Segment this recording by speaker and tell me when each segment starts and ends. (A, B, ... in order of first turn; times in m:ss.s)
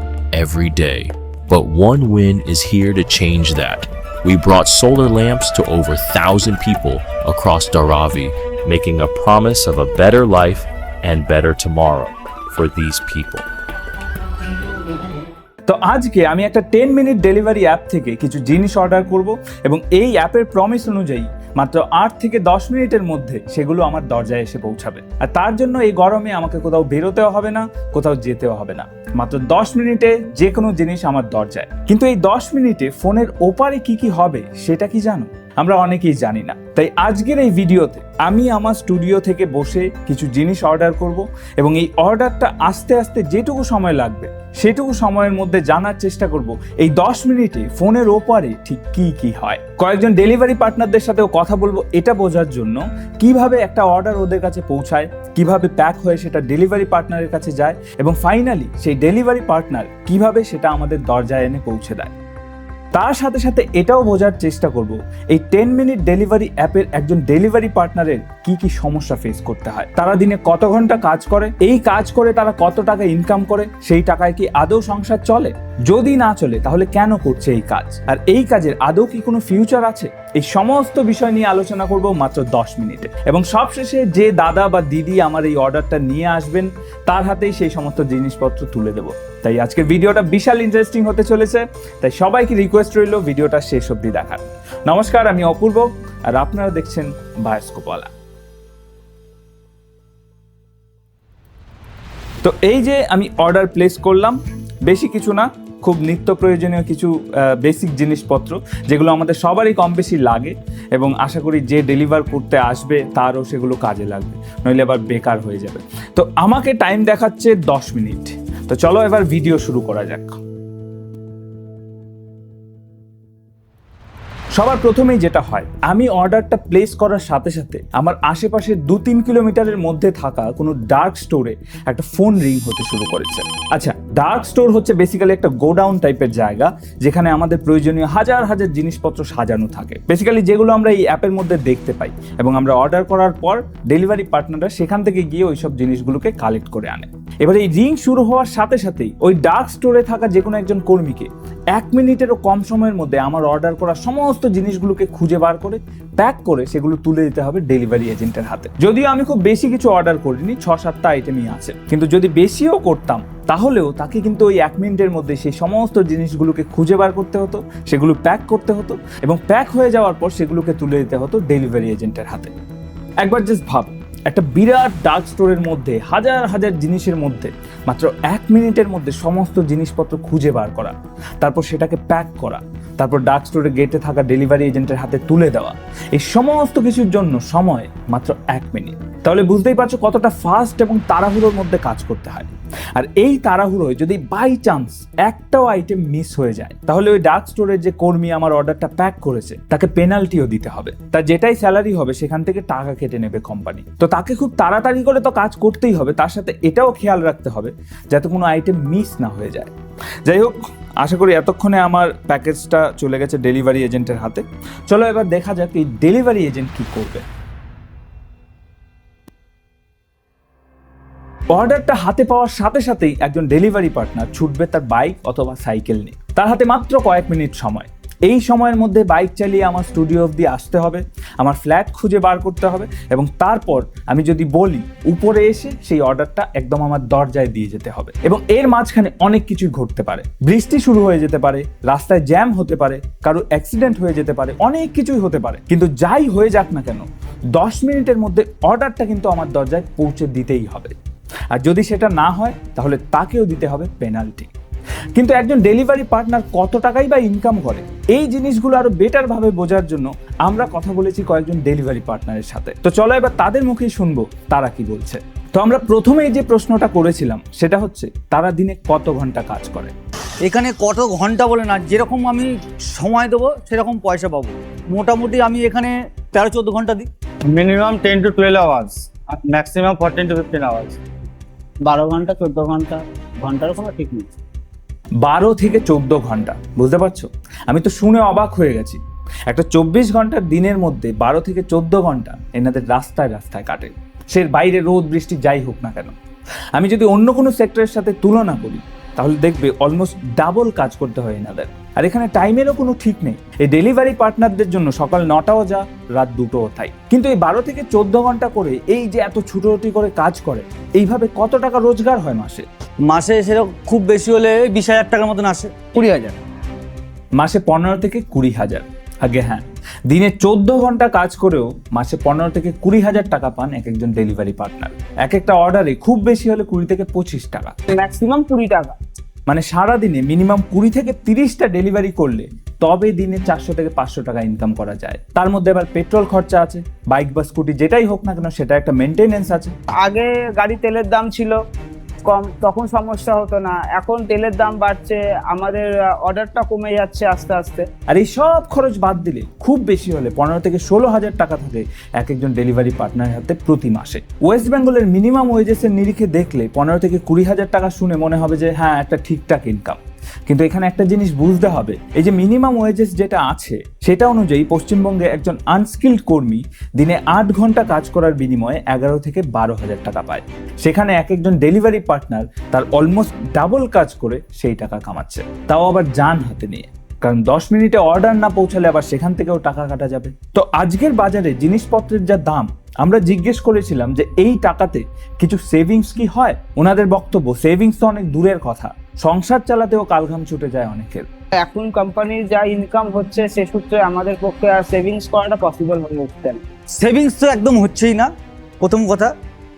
0:00.3-0:13.4 A
0:15.7-1:02.1 B
1:02.9-1:38.1 B
1:42.4-2:00.4 B
2:04.6-2:52.5 B
2:53.2-3:29.7 B
3:30.3-3:37.2 B
3:41.5-4:11.0 B
4:11.5-4:14.5 B
4:15.2-4:29.9 B
4:30.4-4:37.1 C
4:37.5-4:41.0 D
4:41.8-4:44.3 E
4:45.2-4:56.2 B
4:56.8-5:12.6 B
5:13.1-5:15.7 C
5:15.9-5:16.4 E
5:17.4-5:27.8 B
5:27.9-5:29.0 E
5:29.5-5:39.7 B
5:40.0-5:41.6 E
5:42.3-5:47.8 E
5:48.1-6:31.3 B
6:31.6-6:36.6 E
6:37.0-6:38.3 C
6:38.8-6:39.3 C